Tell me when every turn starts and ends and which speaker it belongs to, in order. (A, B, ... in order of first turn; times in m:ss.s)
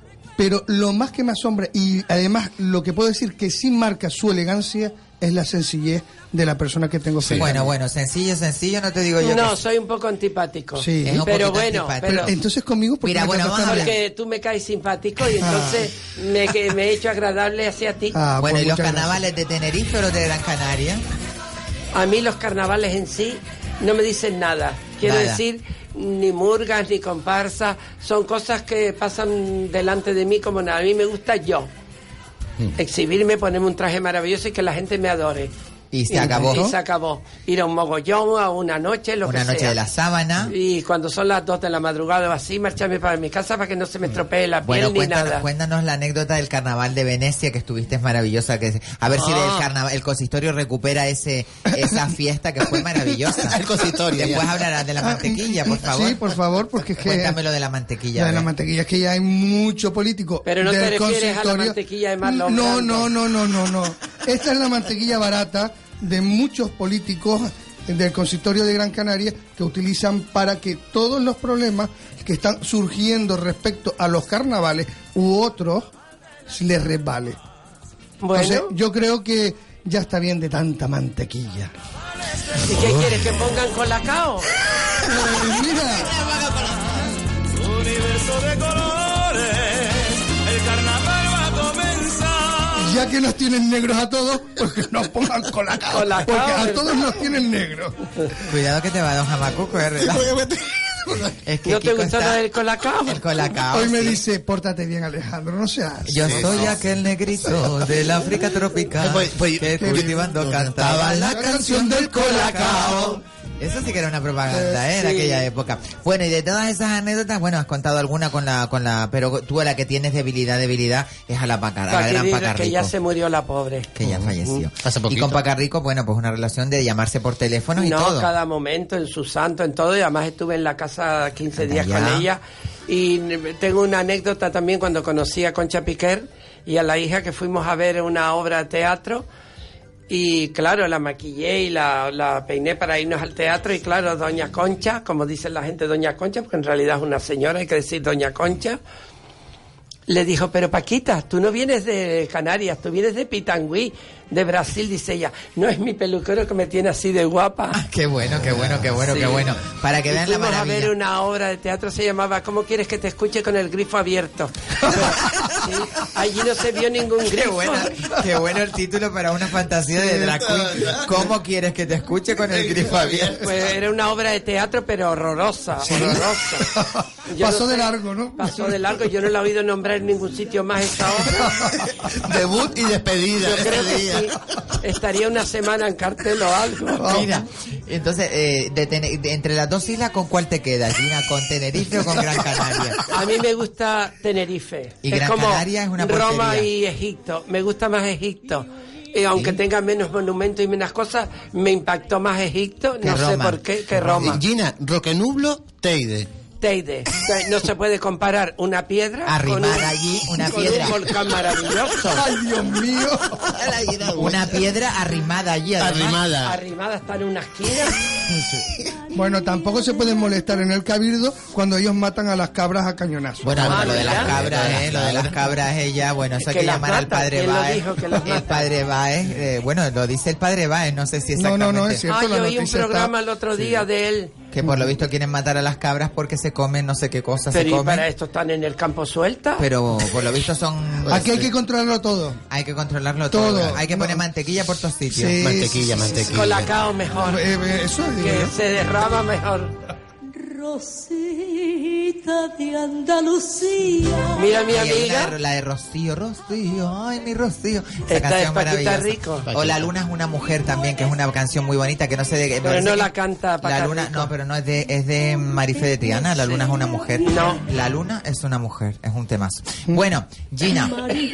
0:00.4-0:07.7 A
0:07.2-0:07.5 B
0:07.3-0:09.6 C
0:09.2-0:12.3 D
0:10.8-0:11.2 A
0:11.0-0:12.4 C
0:12.2-0:13.9 A
0:13.0-0:13.9 C
0:13.6-0:18.2 D
0:15.4-0:15.8 A
0:18.1-0:19.2 A
0:18.4-0:21.0 C
0:21.9-0:31.7 D
0:25.0-0:25.4 C
0:32.8-0:35.5 D
0:35.9-0:36.7 C
0:36.1-0:39.8 D
0:39.2-0:40.5 C
0:40.5-0:45.4 D
0:44.6-0:53.6 C
0:49.2-0:49.6 D
0:53.4-0:54.5 B
0:54.1-0:56.3 C
0:55.0-0:57.4 A
0:57.0-0:58.5 C
0:58.1-1:15.9 A
1:00.4-1:03.1 D
1:16.5-1:17.4 A
1:18.2-1:18.7 D
1:18.3-1:21.7 A
1:22.6-1:24.5 D
1:22.8-1:23.1 B
1:24.9-1:26.1 A
1:32.8-1:38.1 A
1:35.9-1:37.0 D
1:38.4-1:40.3 C
1:40.0-1:41.3 B
1:41.4-1:42.4 C
1:41.6-1:43.2 D
1:43.1-1:44.2 C
1:43.7-1:46.5 A
1:46.1-2:02.9 C
1:46.2-1:46.7 B
1:49.0-1:51.4 B
1:49.8-1:50.2 A
1:51.2-1:53.1 A
1:52.2-1:52.5 D
1:54.5-1:54.8 A
1:55.0-1:55.4 D
2:01.9-2:03.9 D
2:04.0-2:08.3 C
2:04.0-2:04.3 B
2:04.8-2:05.4 B
2:07.8-2:19.2 D
2:11.6-2:12.2 C
2:20.1-2:28.8 D
2:30.1-2:37.8 D
2:37.7-2:40.9 C
2:38.5-2:38.8 B
2:39.0-2:39.4 D
2:40.1-2:47.9 D
2:47.4-2:53.4 C
2:50.4-2:51.2 B
2:52.5-2:53.4 B
2:53.4-2:56.7 D
2:56.6-2:58.8 A
2:57.3-3:01.5 D
3:01.3-3:02.0 A
3:02.0-3:04.3 B
3:03.4-3:07.2 D
3:07.0-3:07.4 A
3:07.0-3:13.0 C
3:13.1-3:24.4 D
3:15.0-3:16.7 C
3:23.0-3:24.4 C
3:24.2-3:26.3 B
3:26.6-3:32.2 D
3:29.3-3:31.1 C
3:32.0-3:33.5 A
3:33.5-3:34.6 B
3:34.1-3:36.2 C
3:35.8-3:36.6 B
3:36.4-3:38.0 D
3:39.1-3:44.1 A
3:43.4-3:52.0 C
3:43.6-3:44.3 D
3:43.6-3:45.4 B
3:46.4-3:48.7 D
3:51.4-3:53.1 A
3:52.1-3:54.3 D
3:54.5-3:58.0 C
3:57.5-3:59.6 D
3:59.6-4:01.3 C
4:01.1-4:02.4 A
4:01.1-4:01.4 B
4:02.5-4:05.4 C
4:03.3-4:04.2 A
4:05.1-4:06.4 A
4:05.4-4:06.7 B
4:06.3-4:07.4 D
4:07.2-4:08.6 A
4:08.2-4:09.8 D
4:10.6-4:14.2 E
4:14.3-4:15.3 D
4:14.7-4:23.1 C
4:18.1-4:19.5 D
4:19.5-4:19.9 B
4:22.6-4:24.3 D
4:23.6-4:31.1 C
4:27.2-4:27.6 D